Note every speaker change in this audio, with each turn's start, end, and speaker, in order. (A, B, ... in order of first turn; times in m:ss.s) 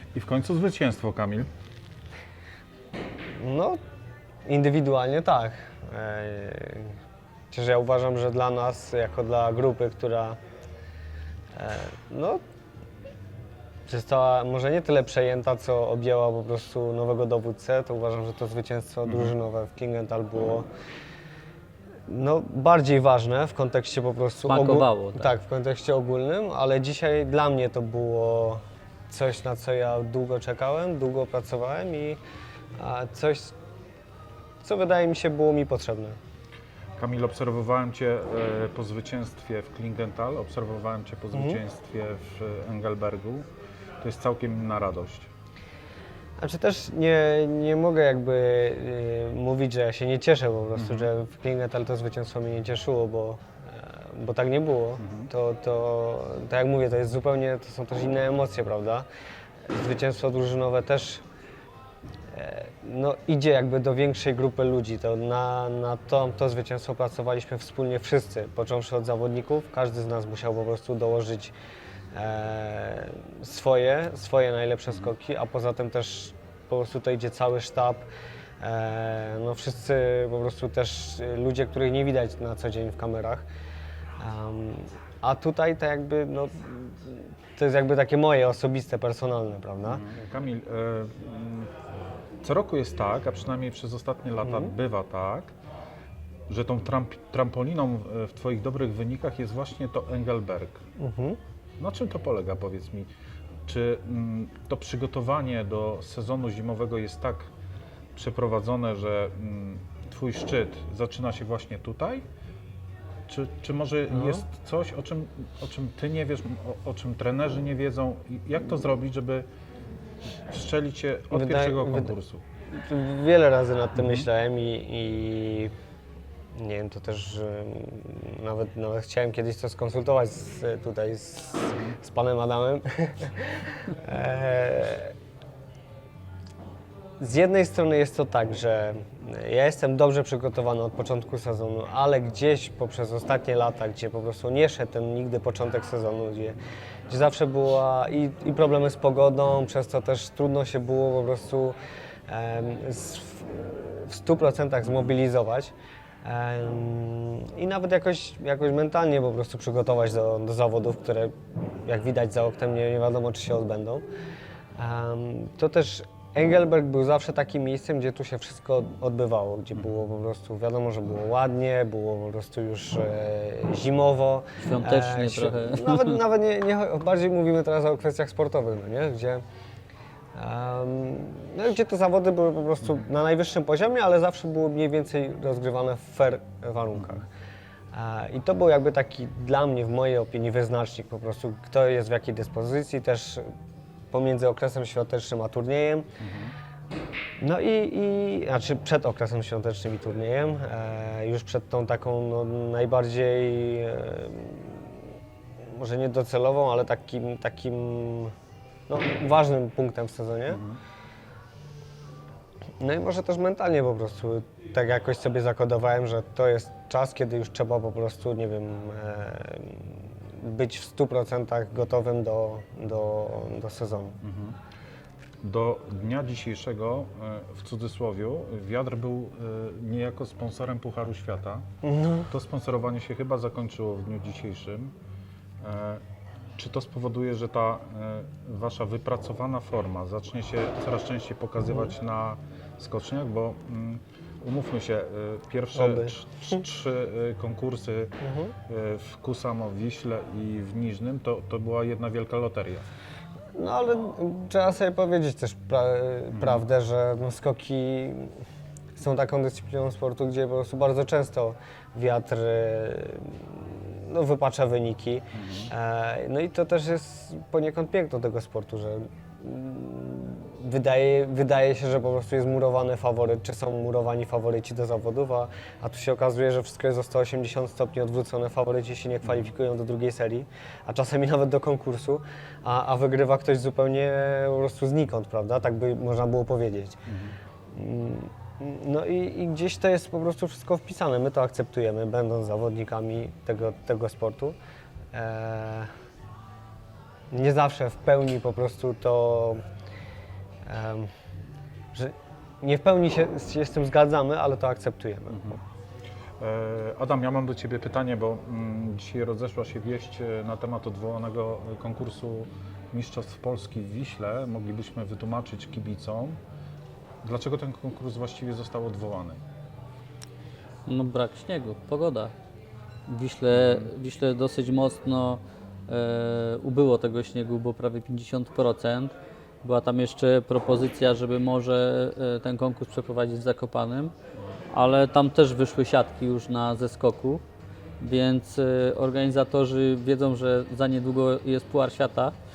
0:00.1-0:01.5 A
0:03.4-0:03.8 B
0:04.4-0:07.0 B
0:07.5-0:10.4 B
0:11.5-0:12.4 B
0:13.9-0:20.6 B
0:19.0-0:19.3 A
0:22.1-0:32.2 B
0:24.4-0:25.3 C
0:32.8-0:33.5 B
0:34.6-0:36.2 B
0:37.0-0:43.5 A
0:41.3-0:41.6 B
0:44.0-0:45.3 A
0:46.4-0:59.0 B
0:50.7-0:51.1 A
0:55.0-0:55.3 A
0:59.7-1:01.2 B
1:02.3-1:11.5 B
1:12.1-1:18.1 B
1:18.6-1:23.4 B
1:24.2-1:30.0 B
1:29.8-1:31.7 A
1:32.4-1:35.5 A
1:34.4-1:34.7 B
1:36.5-1:40.8 A
1:41.0-1:41.4 B
1:41.8-1:43.1 A
1:43.6-1:47.5 A
1:48.1-1:52.2 A
1:53.3-1:59.4 A
1:54.1-1:54.4 B
2:00.5-2:02.4 A
2:01.3-2:02.2 B
2:02.7-2:05.7 B
2:04.0-2:04.3 A
2:06.5-2:15.1 B
2:17.2-2:26.6 B
2:27.1-2:31.8 B
2:32.3-2:44.0 B
2:44.8-2:59.4 B
2:49.7-2:50.0 A
2:54.6-2:56.2 C
3:00.3-3:07.2 B
3:07.0-3:07.2 A
3:07.9-3:13.5 B
3:14.1-3:16.1 B
3:16.2-3:16.6 A
3:17.4-3:24.9 B
3:25.7-3:28.3 B
3:28.9-3:30.6 B
3:30.5-3:30.8 A
3:32.8-3:44.2 B
3:44.2-3:44.6 A
3:45.4-3:51.7 A
3:51.8-3:52.3 B
3:52.3-3:54.9 A
3:55.6-3:56.0 A
3:56.6-4:12.9 A
4:05.7-4:06.6 B
4:08.2-4:08.5 B
4:13.5-4:18.4 B
4:16.3-4:16.6 A
4:19.0-4:47.0 B
4:25.3-4:25.7 A
4:39.2-4:39.5 A
4:47.1-4:47.4 A
4:47.7-4:54.5 B
4:55.1-4:55.9 B
4:57.3-4:59.6 B
5:00.6-5:01.1 B
5:01.9-5:05.5 B
5:05.3-5:05.6 A
5:06.4-5:16.4 A
5:17.2-5:19.4 A
5:20.9-5:22.3 C
5:23.1-5:34.1 C
5:23.5-5:23.9 A
5:34.7-5:37.4 C
5:38.0-5:42.3 C